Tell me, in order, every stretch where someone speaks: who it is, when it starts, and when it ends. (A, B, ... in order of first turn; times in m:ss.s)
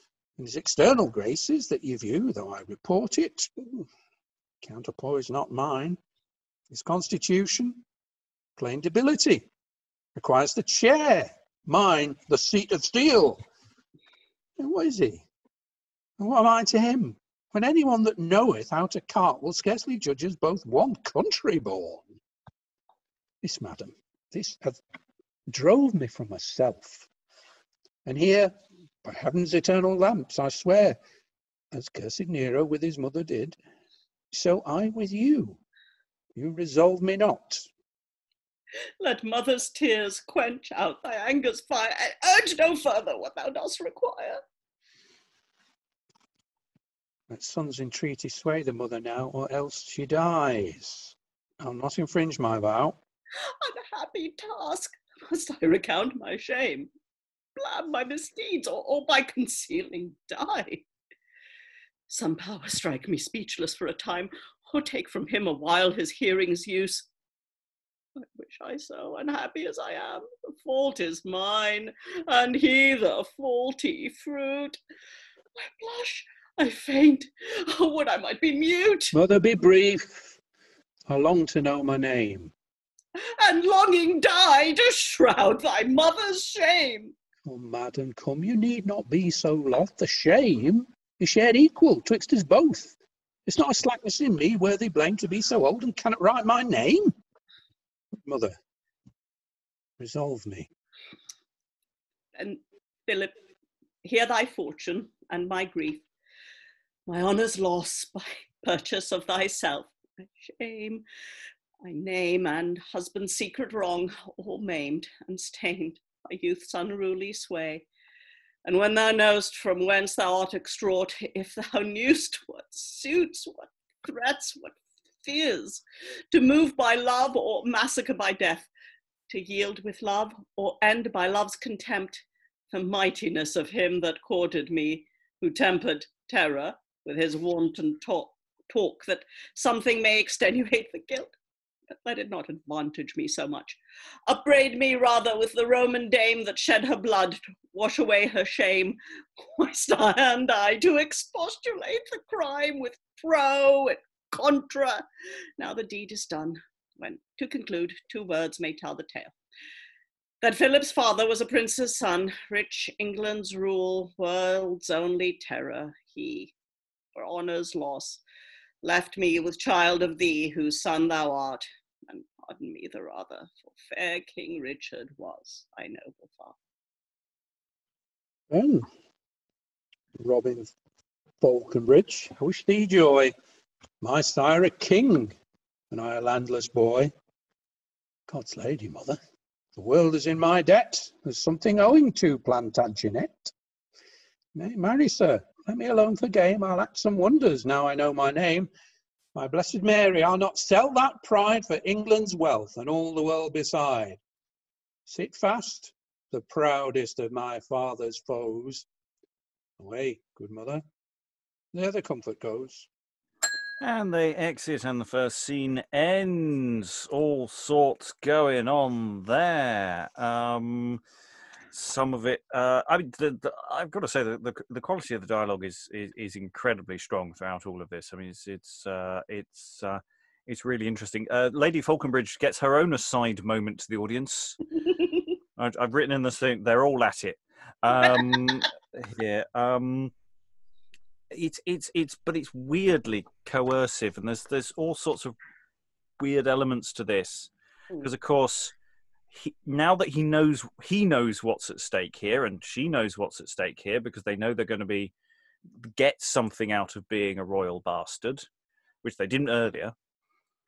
0:00.4-0:03.9 A
0:04.6-0:06.0 A
0:06.7-0:07.8 A
0:08.6-0:09.5 A
0:10.2-0:13.4 A
0:14.6-0:15.2 A
0:16.2-0:22.1 A
0:23.4-0:24.8 A
0:25.5-0:27.1 A
0:28.0-0:31.0 A
0:31.7-0:33.6 A
0:34.3-0:35.6 A
0:36.4-0:37.7 A
0:39.0-0:44.4 B
0:47.3-0:53.0 A
0:53.6-0:56.9 B
0:57.6-1:00.8 B
1:02.1-1:07.1 B
1:08.2-1:14.8 B
1:15.6-1:19.2 B
1:19.1-1:20.4 A
1:21.1-1:22.5 A
1:23.4-1:27.1 B
1:27.4-1:32.9 A
1:33.5-1:37.2 A
1:38.2-1:38.6 A
1:40.0-1:40.7 A
1:42.4-1:43.4 B
1:44.0-1:46.0 B
1:47.1-1:51.0 B
1:51.8-1:57.9 B
1:58.6-2:08.7 B
2:09.3-2:21.3 B
2:22.0-2:35.0 B
2:35.6-2:39.3 B
2:40.4-2:46.5 B
2:47.2-2:48.2 B
2:48.8-2:56.6 B
2:58.5-2:58.9 A
3:00.2-3:00.7 A
3:01.4-3:03.3 A
3:04.0-3:05.3 A
3:05.9-3:07.1 A
3:08.3-3:09.2 A
3:09.8-3:13.5 A
3:14.6-3:18.7 A
3:19.4-3:24.2 A
3:25.1-3:28.9 A
3:29.8-3:30.8 A
3:31.7-3:32.9 A
3:33.8-3:41.0 C
3:41.7-3:54.6 C
3:55.6-4:00.1 C
4:01.3-4:05.4 C
4:06.2-4:07.5 C
4:08.0-4:08.7 C
4:09.3-4:15.1 C
4:15.8-4:18.5 C
4:19.0-4:20.0 C